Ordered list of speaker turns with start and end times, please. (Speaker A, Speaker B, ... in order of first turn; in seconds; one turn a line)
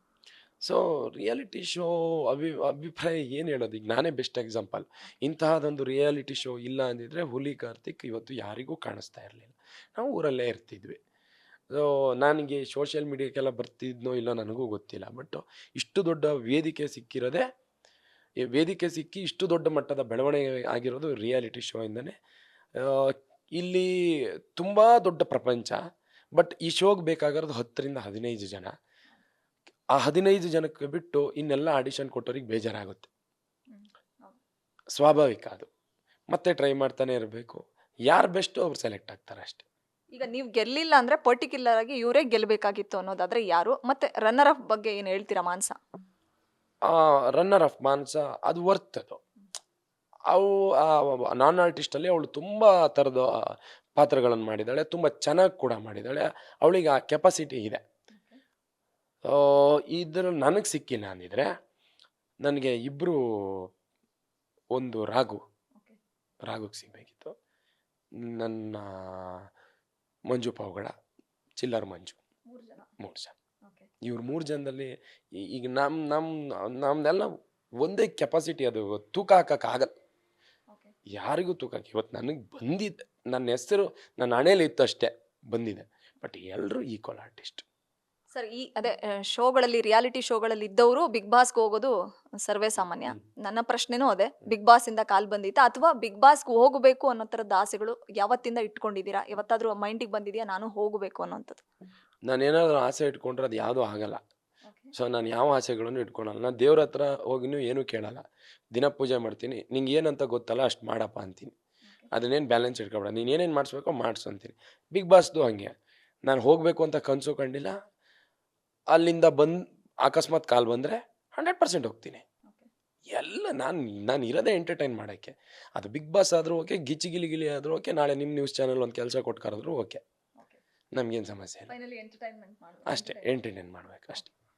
Speaker A: 0.6-11.0
Speaker A: 11.7-17.4
Speaker A: 18.4-22.1
Speaker A: 22.8-25.8
Speaker A: 26.3-28.7
Speaker A: 29.9-33.1
Speaker B: 33.7-34.4
Speaker A: 34.9-35.7
Speaker A: 36.3-39.6
Speaker B: 40.1-45.8
Speaker A: 46.9-49.2
Speaker A: 50.3-57.8
Speaker B: 58.1-58.4
Speaker A: 59.2-61.5
Speaker A: 62.4-63.7
Speaker A: 64.7-65.4
Speaker A: 66.5-67.3
Speaker A: 68.2-69.5
Speaker A: 70.3-70.9
Speaker A: 71.6-72.2
Speaker B: 72.5-72.9
Speaker A: 73.0-73.3
Speaker A: 74.0-79.9
Speaker A: 81.1-87.6
Speaker B: 88.3-101.6
Speaker A: 102.3-104.2
Speaker B: 104.7-104.9
Speaker A: 104.9-108.2
Speaker A: 108.7-111.5
Speaker A: 112.1-117.8
Speaker A: 118.9-122.2
Speaker A: 123.1-130.0
Speaker A: 130.9-131.7
Speaker B: 131.7-133.3
Speaker A: 132.9-134.3